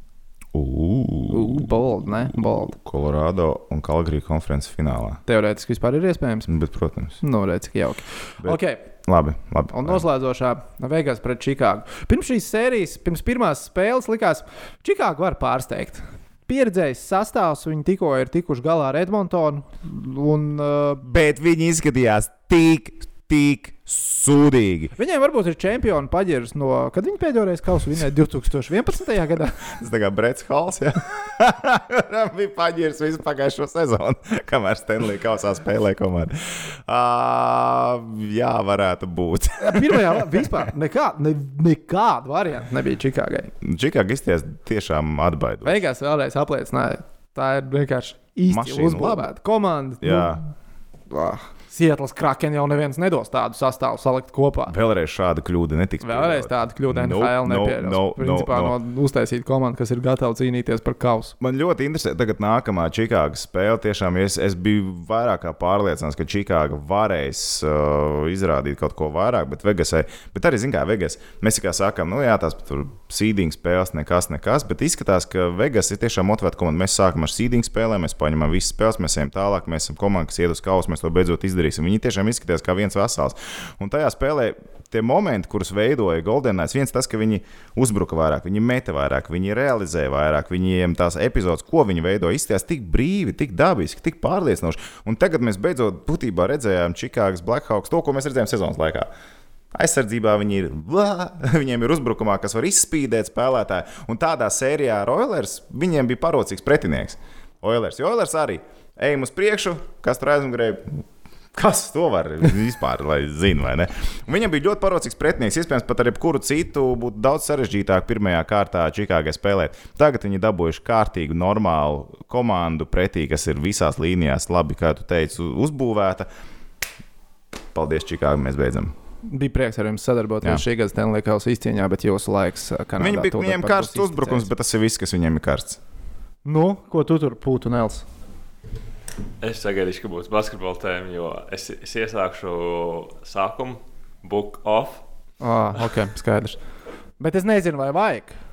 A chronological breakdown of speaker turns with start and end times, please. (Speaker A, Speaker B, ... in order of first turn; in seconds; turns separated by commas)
Speaker A: 0.5-5.2, Speaker B: 1.3-2.7, Speaker B: 5.3-6.5, Speaker A: 6.5-7.2, Speaker B: 7.2-8.8, Speaker A: 8.4-10.0, Speaker B: 9.7-21.1, Speaker A: 21.0-24.9, Speaker B: 25.0-29.6, Speaker A: 29.7-40.7, Speaker B: 39.6-43.5, Speaker A: 43.6-45.8, Speaker B: 45.6-50.4, Speaker A: 48.5-49.2, Speaker A: 50.0-50.4, Speaker B: 51.1-54.7, Speaker A: 54.7-58.8, Speaker B: 56.0-61.4, Speaker A: 61.4-99.1, Speaker A: 99.7-126.3, Speaker A: 127.7-128.9, Speaker B: 129.2-134.5, Speaker A: 133.0-135.8, Speaker B: 136.4-138.1, Speaker C: 139.4-145.0, Speaker B: 145.4-146.6, Speaker B: 147.2-148.3